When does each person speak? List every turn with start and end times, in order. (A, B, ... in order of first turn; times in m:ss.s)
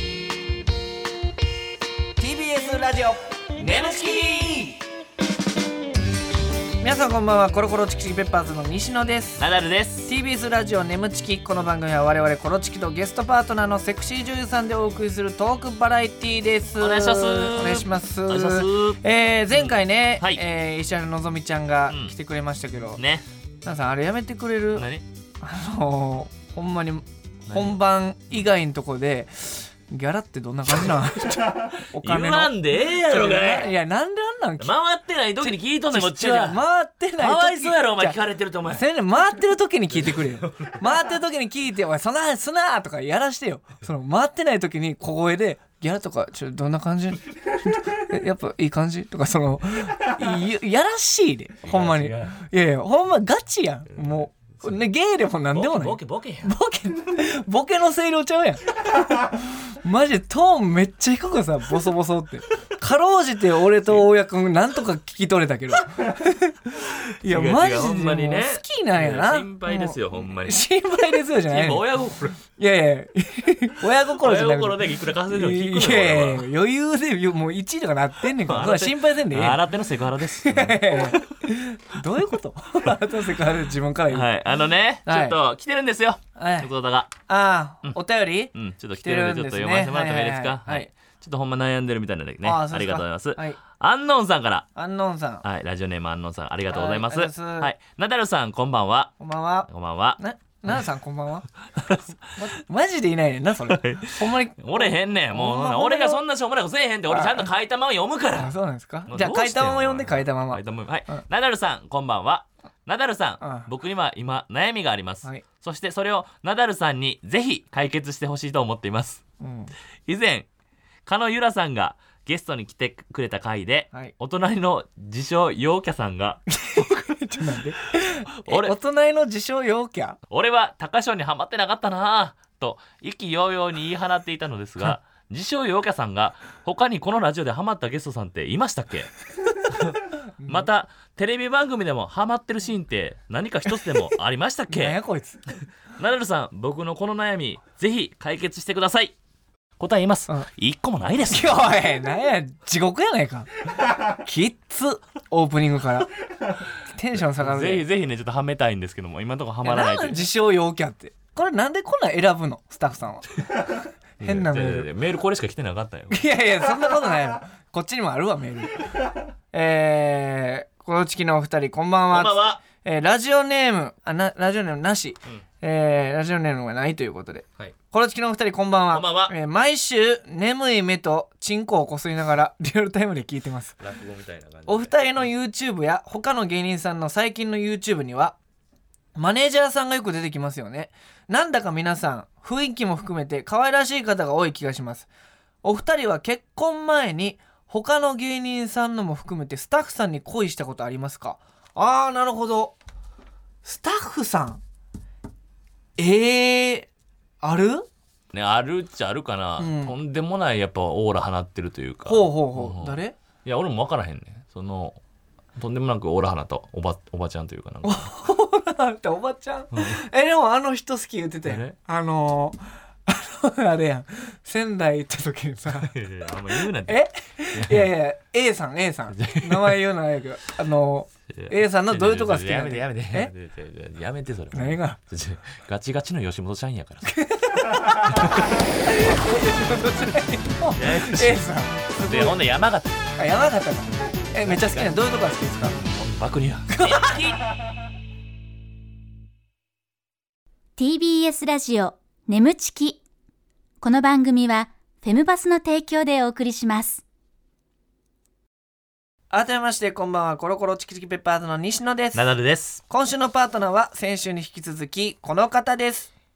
0:02.2-0:04.8 A
0:06.8-0:09.4 A
0:09.4-0:10.1 B
0:10.0-0:23.0 A
0:16.8-0:19.0 B
0:19.5-0:20.4 B
0:21.9-0:22.1 B
0:23.0-0:23.2 B
0:23.6-0:24.9 A
0:24.8-0:25.0 B
0:25.4-0:34.7 A
0:27.5-0:27.8 B
0:32.0-0:33.7 B
0:34.6-0:36.6 B
0:35.4-0:58.6 A
0:37.2-0:38.8 B
0:40.0-0:40.8 B
0:51.6-0:52.4 B
0:54.0-0:54.8 B
0:55.5-0:56.5 B
0:59.2-1:11.8 A
1:07.2-1:10.6 B
1:11.5-1:12.4 B
1:12.5-1:19.6 A
1:14.2-1:16.5 B
1:18.4-1:21.4 B
1:20.4-1:24.3 A
1:24.1-1:27.1 B
1:25.0-1:25.4 A
1:26.4-1:26.7 A
1:27.3-1:30.9 A
1:28.5-1:34.7 B
1:32.4-1:33.6 A
1:34.8-1:35.4 A
1:35.4-1:39.1 B
1:36.7-1:37.7 A
1:39.2-1:41.5 A
1:39.7-1:40.2 B
1:41.8-1:42.2 B
1:42.4-1:46.2 A
1:43.7-1:48.5 B
1:47.1-1:47.5 A
1:48.3-1:51.2 A
1:49.0-1:59.2 B
1:53.4-1:53.7 A
1:59.4-1:59.7 A
2:00.0-2:00.5 B
2:01.0-2:06.4 B
2:06.5-2:10.2 A
2:08.4-2:08.7 B
2:10.3-2:19.1 B
2:19.6-2:25.0 B
2:20.4-2:20.7 A
2:24.7-2:25.4 A
2:26.0-2:29.1 B
2:29.8-2:31.7 B
2:31.3-2:33.5 A
2:34.2-2:36.1 A
2:36.9-2:37.8 A
2:37.2-2:40.2 B
2:39.6-2:43.2 A
2:44.2-2:46.2 B
2:44.2-2:44.9 A
2:46.1-2:48.8 A
2:49.5-3:03.8 A
2:52.1-2:52.6 B
2:58.9-2:59.3 B
3:03.8-3:05.3 B
3:04.7-3:08.4 A
3:09.2-3:15.1 A
3:15.6-3:22.8 A
3:23.6-3:24.6 A
3:26.0-3:26.9 A
3:27.4-3:27.9 A
3:28.3-3:35.0 B
3:29.6-3:29.9 A
3:32.0-3:33.2 A
3:35.6-3:38.1 B
3:37.8-3:45.9 A
3:39.7-3:40.0 B
3:41.4-3:41.8 B
3:45.7-3:47.9 B
3:46.8-3:53.3 A
3:49.1-3:49.8 B
3:51.3-3:57.2 B
3:54.5-3:55.0 A
3:57.0-4:02.4 A
3:58.0-3:58.6 B
4:00.8-4:03.1 B
4:03.2-4:05.8 A
4:04.4-4:05.0 B
4:05.8-4:07.4 B
4:06.7-4:07.4 A
4:10.8-4:13.0 C
4:13.8-4:17.0 C
4:19.3-4:22.2 A
4:22.1-4:22.8 B
4:22.9-4:26.1 A